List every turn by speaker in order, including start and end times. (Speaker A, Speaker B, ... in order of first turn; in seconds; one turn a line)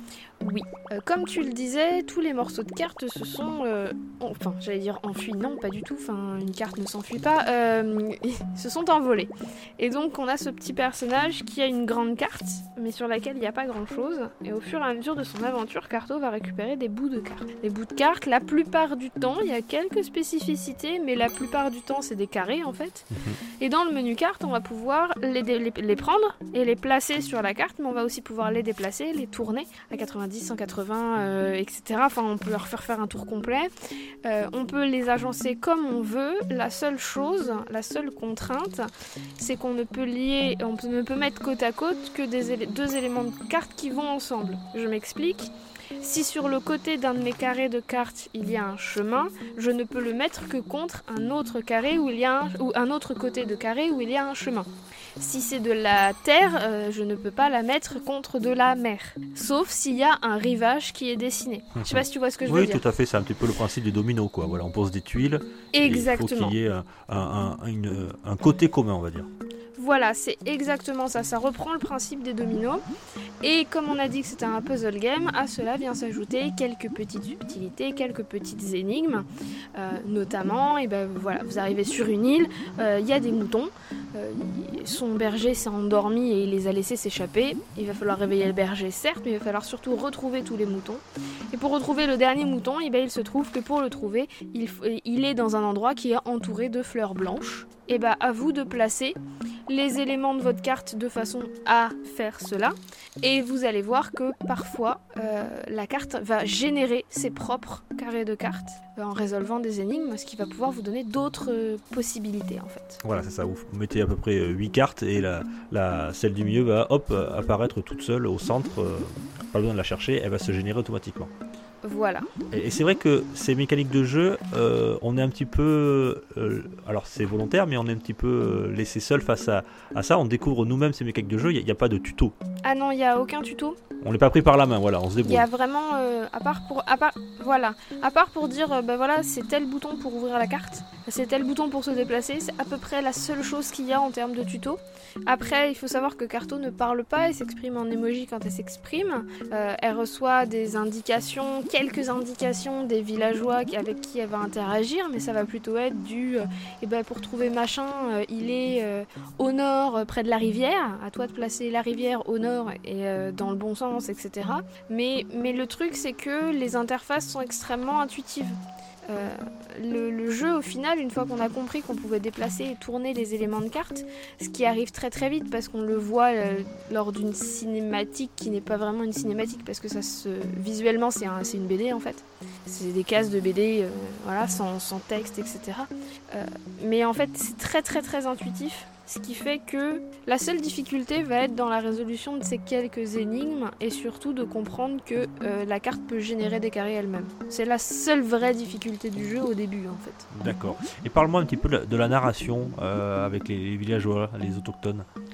Speaker A: 0.4-33.7
Speaker B: 23.1-23.4
Speaker A: 34.2-62.8
Speaker B: 61.8-69.3
Speaker A: 65.7-66.6
Speaker A: 69.8-72.8
Speaker A: 73.4-113.0
Speaker B: 113.0-121.3
Speaker A: 121.8-122.3
Speaker B: 122.5-132.3
Speaker A: 132.6-133.8
Speaker B: 134.0-135.5
Speaker A: 135.2-200.3
Speaker B: 200.3-205.1